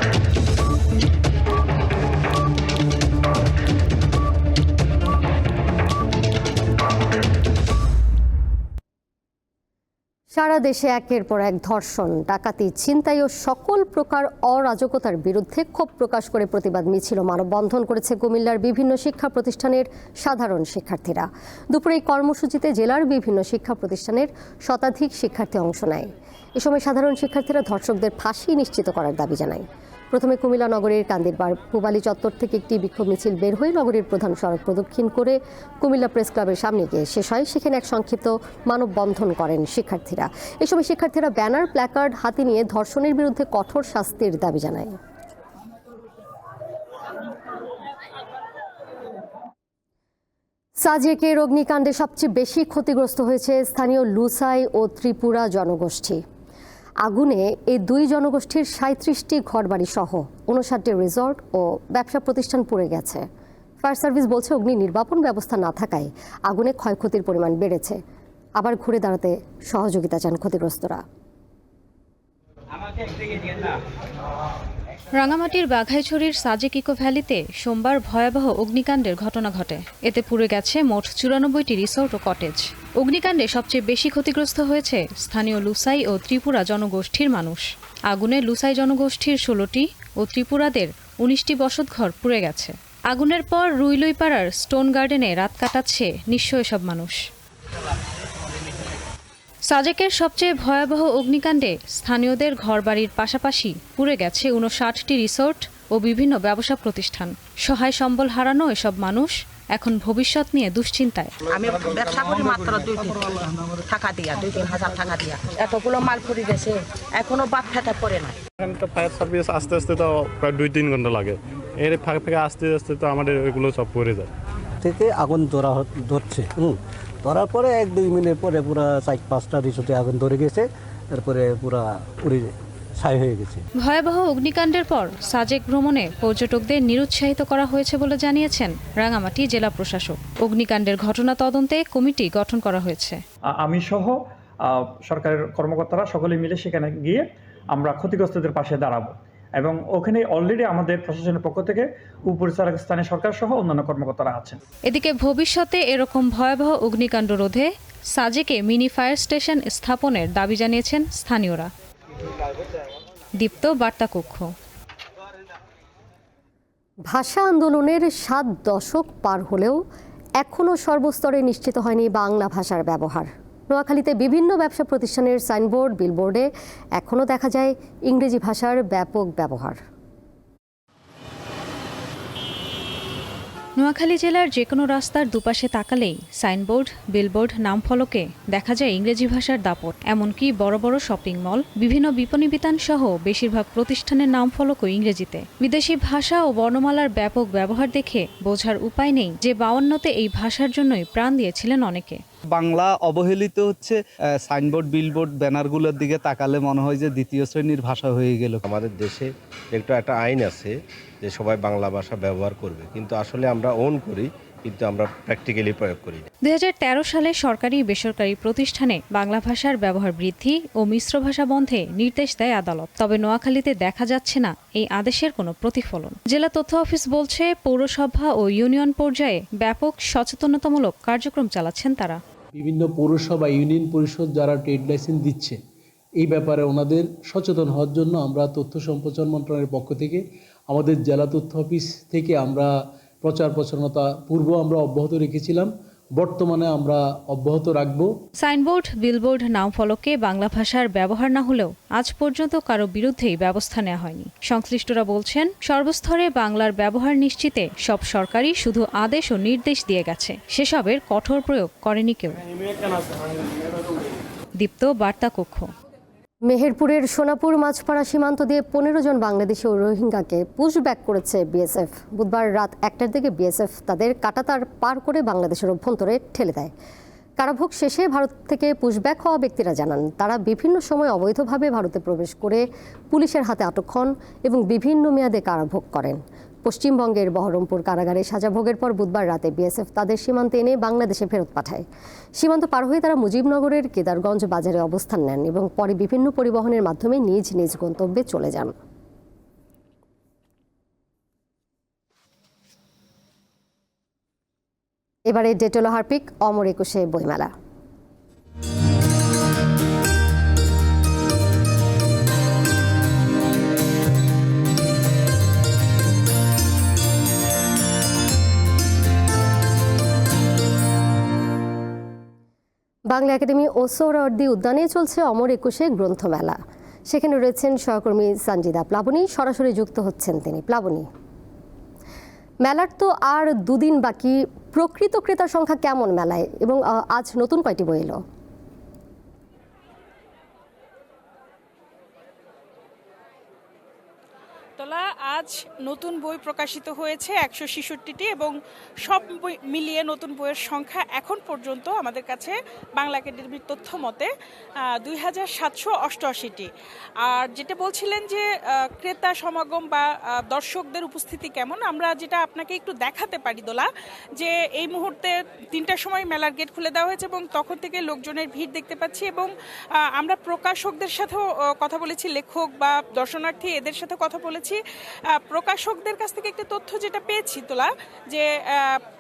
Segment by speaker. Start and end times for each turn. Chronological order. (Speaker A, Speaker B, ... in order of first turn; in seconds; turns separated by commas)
Speaker A: 10.3-45.0, Speaker A: 50.8-56.2, Speaker A: 57.0-63.2, Speaker A: 63.8-68.0, Speaker A: 68.6-71.0, Speaker B: 75.1-97.2, Speaker B: 99.7-111.3, Speaker C: 111.5-113.3, Speaker C: 113.8-118.3, Speaker D: 118.6-124.3, Speaker E: 124.8-126.7, Speaker E: 127.2-130.6, Speaker E: 131.1-132.5, Speaker E: 133.0-133.6, Speaker B: 133.8-143.2, Speaker F: 143.6-144.1, Speaker F: 145.1-147.2, Speaker F: 147.8-149.1, Speaker F: 149.6-154.6, Speaker B: 154.9-161.7, Speaker B: 163.4-164.5, Speaker A: 167.1-169.8, Speaker A: 170.4-179.8, Speaker B: 183.8-202.2, Speaker G: 202.5-208.6, Speaker H: 208.6-216.2, Speaker B: 216.4-232.2, Speaker I: 232.5-235.6, Speaker I: 236.2-242.7, Speaker I: 243.2-248.1, Speaker B: 248.4-262.4, Speaker B: 264.6-265.7, Speaker A: 266.5-276.7, Speaker A: 277.4-291.8, Speaker A: 292.4-298.7, Speaker A: 305.3-307.5, Speaker A: 323.1-326.6, Speaker A: 327.1-331.1, Speaker A: 332.6-338.2, Speaker J: 344.8-354.3, Speaker J: 355.0-356.7, Speaker J: 357.2-369.5, Speaker J: 370.1-374.8, Speaker J: 375.3-379.0